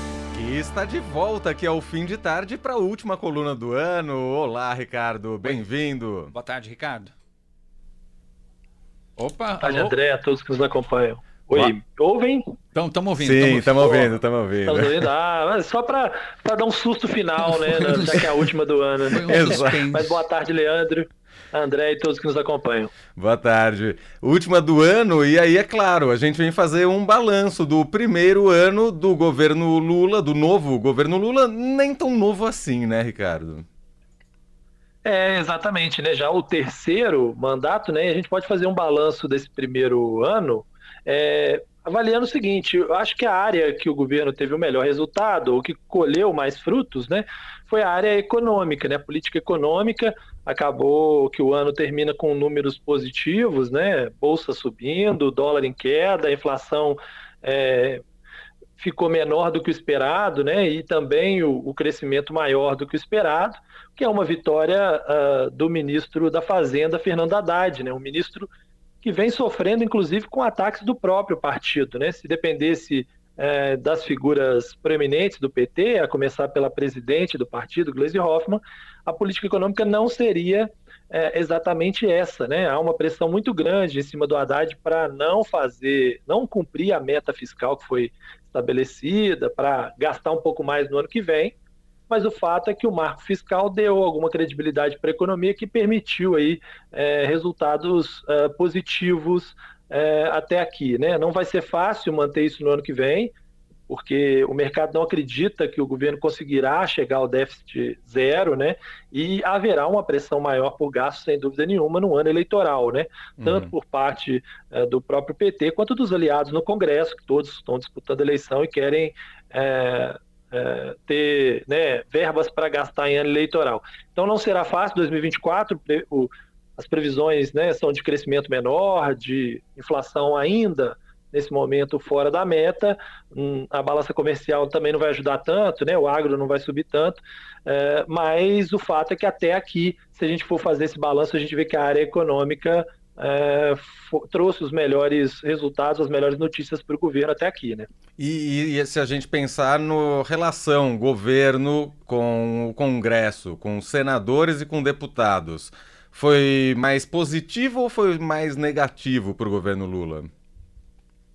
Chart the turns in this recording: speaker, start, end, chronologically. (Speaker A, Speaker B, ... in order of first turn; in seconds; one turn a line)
Speaker A: 0.3-6.3
Speaker B: 6.3-7.1
Speaker B: 9.2-9.9
Speaker C: 9.6-12.6
Speaker B: 12.7-14.2
Speaker A: 13.2-15.1
Speaker C: 14.6-22.9
Speaker B: 17.8-18.4
Speaker B: 19.1-20.2
Speaker A: 19.2-19.9
Speaker A: 23.2-33.7
Speaker C: 35.0-58.0
Speaker C: 58.8-68.5
Speaker C: 69.0-91.5
Speaker C: 92.1-103.3
Speaker C: 103.9-147.9
Speaker A: 113.4-113.7
Speaker A: 148.2-160.3